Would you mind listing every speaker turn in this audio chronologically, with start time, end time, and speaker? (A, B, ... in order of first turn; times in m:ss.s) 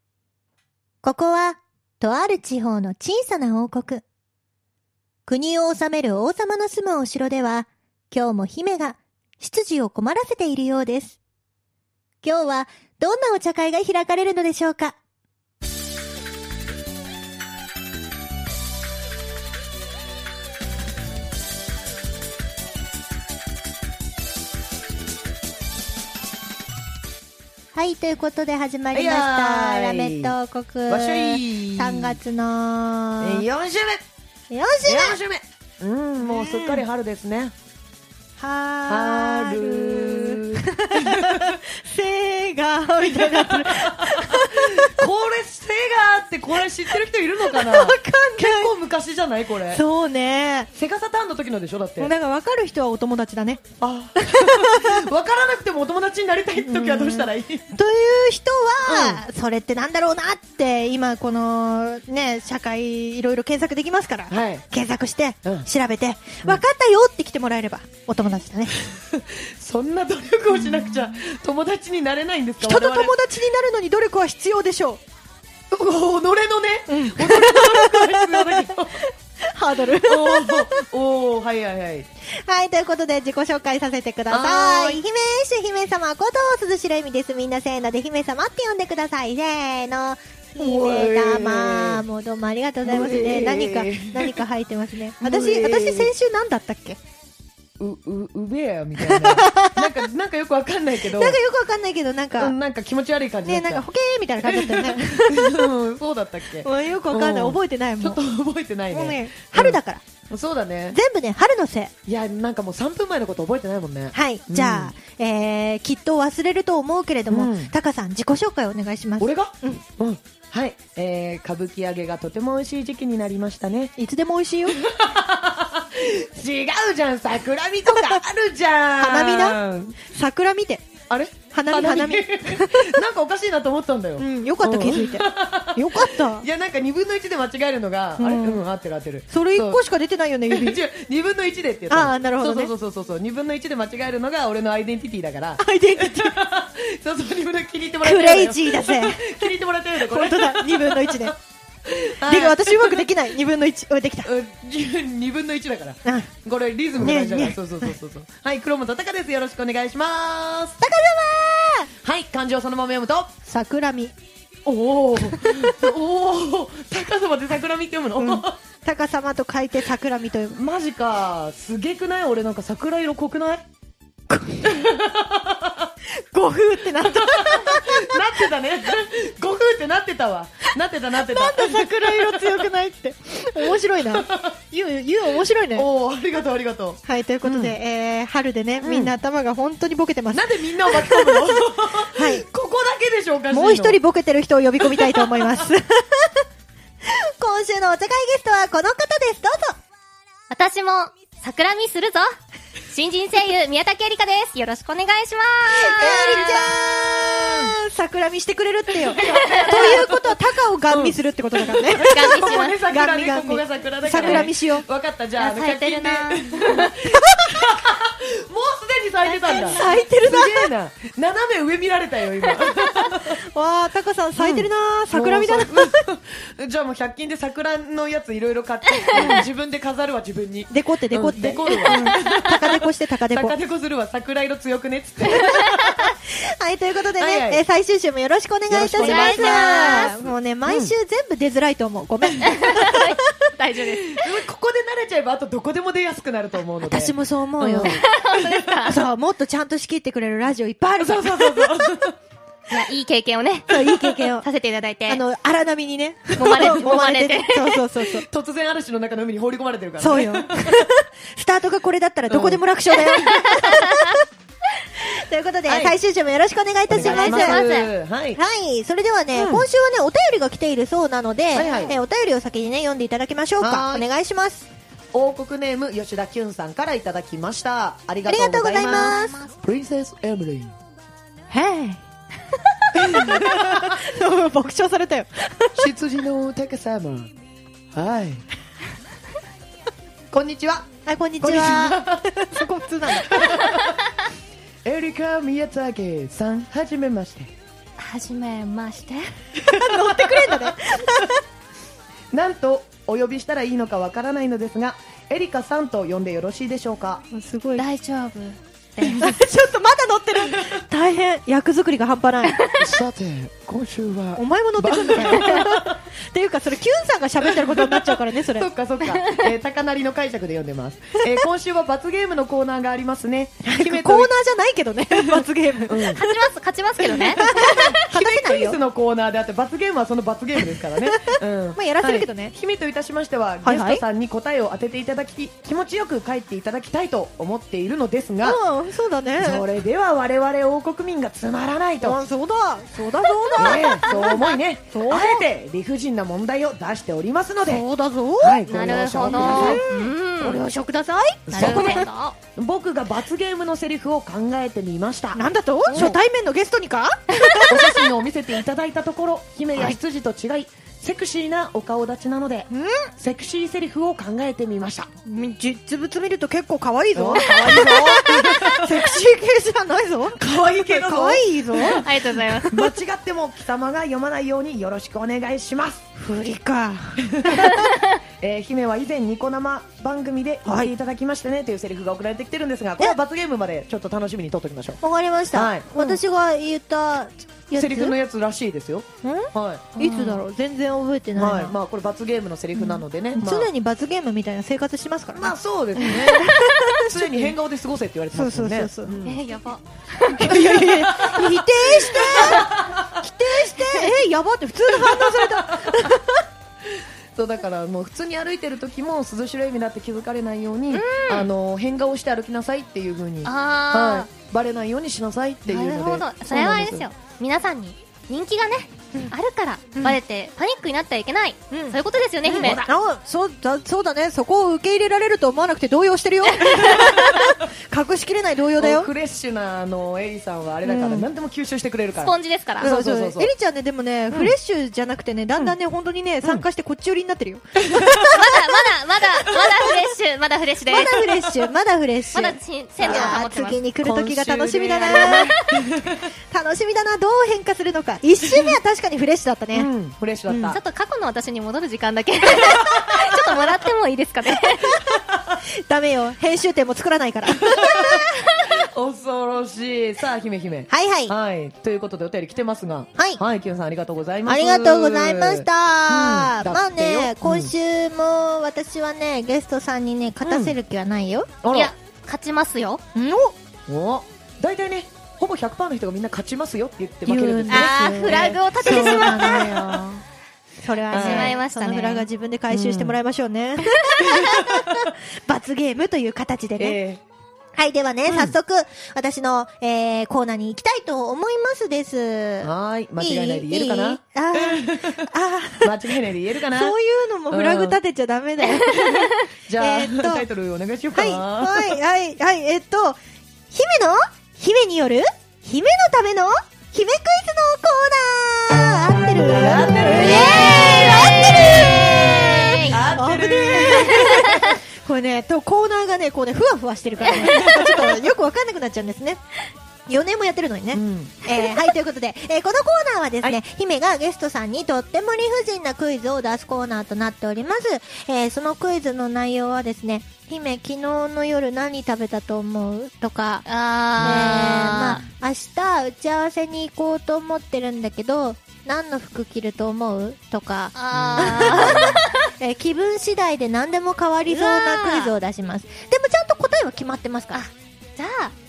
0:01.0-0:04.0 A
0:05.3-0:11.2 A
0:12.2-0:15.0 A
0:27.7-0:33.4 A
0:28.9-0:30.3 B
0:30.9-0:32.2 B
0:33.2-0:34.0 B
0:34.5-0:35.2 A
0:34.8-0:37.5 B
0:36.2-0:36.8 A
0:38.4-0:45.0 A
0:38.9-0:41.6 B
0:43.1-0:49.8 B
0:47.4-0:48.7 A
0:49.7-0:50.7 A
0:50.7-0:52.1 B
0:52.0-0:53.6 A
0:53.8-0:57.6 B
0:54.2-0:55.1 A
0:56.6-1:08.8 A
0:58.8-0:59.2 B
1:04.3-1:04.6 B
1:08.8-1:13.1 B
1:10.5-1:10.9 A
1:12.6-1:15.0 A
1:15.7-1:19.0 B
1:16.9-1:20.8 A
1:19.9-1:22.1 B
1:22.3-1:37.0 A
1:24.3-1:25.0 B
1:30.6-1:32.0 B
1:32.8-1:34.4 B
1:35.2-1:36.1 B
1:37.8-1:41.4 B
1:39.0-1:40.0 A
1:41.1-1:42.6 A
1:42.4-1:43.8 B
1:43.4-1:45.7 A
1:44.4-1:49.8 B
1:46.6-1:48.2 A
1:48.9-1:50.0 A
1:50.3-1:51.0 B
1:50.9-1:51.9 A
1:52.0-1:54.9 B
1:54.1-1:59.8 A
1:57.3-1:57.7 B
1:59.2-2:03.9 B
2:04.0-2:04.8 A
2:04.7-2:10.0 B
2:09.0-2:10.9 A
2:11.1-2:19.8 B
2:11.5-2:13.0 A
2:14.2-2:16.5 A
2:18.2-2:18.6 A
2:19.3-2:20.8 A
2:20.5-2:33.1 B
2:21.9-2:22.7 A
2:25.6-2:26.4 A
2:28.0-2:31.3 A
2:32.2-2:34.3 A
2:34.2-2:40.8 B
2:36.0-2:36.3 A
2:37.0-2:37.9 A
2:40.8-2:41.9 A
2:42.0-2:43.3 B
2:43.4-2:44.1 A
2:44.6-2:48.6 B
2:45.4-2:45.7 A
2:48.2-2:50.6 A
2:50.5-2:53.6 B
2:54.3-2:54.8 A
2:54.6-2:55.9 B
2:56.1-2:58.4 A
2:56.9-3:02.7 B
3:01.2-3:05.9 A
3:03.6-3:04.6 B
3:05.7-3:07.8 B
3:07.0-3:12.4 A
3:08.8-3:09.1 B
3:10.3-3:14.0 B
3:13.5-3:16.4 A
3:14.8-3:15.6 B
3:17.0-3:19.8 A
3:20.5-3:22.3 C
3:22.9-3:26.7 C
3:25.8-3:34.8 A
3:26.3-3:26.7 B
3:27.4-3:27.7 B
3:28.9-3:30.3 B
3:29.3-3:29.7 C
3:30.9-3:43.4 B
3:32.1-3:32.8 C
3:34.2-3:34.5 C
3:35.4-3:36.9 C
3:37.0-3:37.7 A
3:39.3-3:40.0 C
3:39.5-3:40.7 A
3:43.1-3:46.0 A
3:44.4-3:56.1 B
3:49.0-3:49.3 C
3:49.1-3:49.4 A
3:50.7-3:53.6 A
3:51.7-3:52.3 C
3:56.3-4:03.2 A
3:57.2-3:57.6 B
3:58.7-4:00.9 B
3:59.0-4:00.2 C
4:02.4-4:04.4 C
4:04.1-4:08.8 B
4:06.8-4:08.0 A
4:07.8-4:09.0 C
4:08.9-4:11.8 A
4:11.0-4:12.1 B
4:12.7-4:15.2 C
4:13.7-4:14.5 A
4:15.1-4:18.2 A
4:16.4-4:17.8 C
4:16.5-4:17.0 B
4:18.0-4:20.8 B
4:20.0-4:24.2 A
4:22.3-4:22.6 B
4:23.3-4:24.0 C
4:25.0-4:27.6 A
4:25.7-4:26.0 B
4:26.9-4:28.4 B
4:27.0-4:27.9 C
4:28.4-4:34.7 A
4:29.3-4:29.7 B
4:31.5-4:32.0 B
4:31.6-4:31.9 C
4:33.6-4:34.0 B
4:35.1-4:40.8 B
4:38.3-4:39.4 A
4:38.8-4:39.6 C
4:41.5-4:42.0 A
4:42.9-4:45.8 A
4:42.9-4:44.0 B
4:45.8-4:47.3 B
4:47.9-4:48.4 B
4:50.3-4:50.9 B
4:51.0-4:53.8 A
4:51.4-4:52.3 B
4:53.1-4:54.0 B
4:54.8-4:57.5 B
4:58.0-4:59.3 C
4:59.6-5:01.3 B
4:59.6-5:01.4 A
5:02.3-5:07.2 B
5:07.3-5:07.8 A
5:07.8-5:09.2 C
5:09.2-5:12.6 A
5:10.4-5:10.8 B
5:12.5-5:13.0 C
5:12.8-5:16.0 B
5:14.4-5:18.7 A
5:17.4-5:24.3 B
5:19.0-5:19.5 C
5:23.6-5:26.3 A
5:25.2-5:26.2 B
5:26.1-5:28.0 C
5:27.0-5:38.6 B
5:27.3-5:28.8 A
5:30.7-5:32.5 A
5:33.6-5:34.0 A
5:38.4-5:39.6 A
5:39.4-5:42.2 B
5:42.0-5:44.4 A
5:43.4-5:44.6 C
5:43.6-5:47.8 B
5:44.9-5:45.5 A
5:47.6-5:52.1 A
5:48.4-5:49.8 B
5:48.7-5:50.6 C
5:51.5-5:56.2 B
5:51.5-5:52.4 C
5:55.3-5:57.8 A
5:57.6-6:05.1 B
6:02.7-6:03.1 A
6:05.2-6:12.9 A
6:07.1-6:09.1 B
6:10.4-6:16.0 B
6:11.9-6:12.7 C
6:16.1-6:17.9 A
6:17.2-6:17.7 B
6:18.4-6:25.0 B
6:20.6-6:20.9 A
6:25.0-6:28.1 A
6:25.5-6:26.2 B
6:27.7-6:30.4 B
6:29.2-6:31.7 A
6:30.0-6:30.3 C
6:31.4-6:33.7 B
6:32.7-6:37.5 A
6:35.3-6:39.4 B
6:38.3-6:39.2 A
6:39.2-6:40.6 C
6:40.3-6:44.1 B
6:40.3-6:46.4 A
6:44.9-6:46.1 B
6:46.8-6:57.1 B
6:50.9-6:51.5 C
6:53.4-6:54.3 C
6:55.7-7:02.8 C
6:59.9-7:00.2 A
7:01.7-7:02.0 A
7:02.4-7:02.9 B
7:02.5-7:09.1 A
7:06.6-7:07.0 C
7:06.8-7:07.6 B
7:08.8-7:13.5 B
7:10.8-7:11.3 A
7:12.2-7:12.9 C
7:12.8-7:18.5 A
7:14.3-7:14.5 B
7:17.8-7:18.5 B
7:18.2-7:21.2 C
7:19.3-7:20.0 B
7:20.9-7:25.5 A
7:21.2-7:21.6 B
7:22.3-7:23.8 C
7:23.0-7:23.4 B
7:24.0-7:26.3 B
7:25.0-7:25.8 C
7:26.5-7:29.9 A
7:28.4-7:28.8 B
7:29.7-7:30.8 B
7:30.5-7:30.8 A
7:30.7-7:35.0 C
7:32.6-7:33.6 B
7:35.1-7:35.6 B
7:35.9-7:38.3 A
7:37.6-7:47.7 B
7:40.9-7:41.3 A
7:44.4-7:51.5 A
7:50.4-7:50.8 B
7:51.6-7:51.9 B
7:51.7-7:53.0 C
7:53.1-7:53.5 A
7:53.9-7:59.7 B
7:57.2-8:00.2 A
7:57.7-8:00.0 C
8:00.8-8:07.0 A
8:01.1-8:02.2 C
8:01.1-8:01.6 B
8:02.7-8:03.2 B
8:04.2-8:05.1 B
8:06.8-8:07.2 B
8:07.8-8:15.9 A
8:08.2-8:08.5 B
8:12.6-8:15.3 B
8:15.8-8:16.9 B
8:16.7-8:19.0 A
8:17.5-8:18.0 B
8:18.8-8:22.0 B
8:19.8-8:20.4 A
8:21.1-8:23.2 A
8:23.7-8:39.4 A
8:29.5-8:31.9 B
8:30.1-8:33.0 C
8:32.8-8:34.8 B
8:37.3-8:38.3 B
8:40.1-8:53.6 A
8:40.9-8:41.6 B
8:53.6-8:55.2 C
8:54.2-8:54.5 B
8:54.2-9:07.6 A
9:00.9-9:02.5 C
9:01.1-9:02.2 B
9:04.5-9:05.3 C
9:07.5-9:08.5 C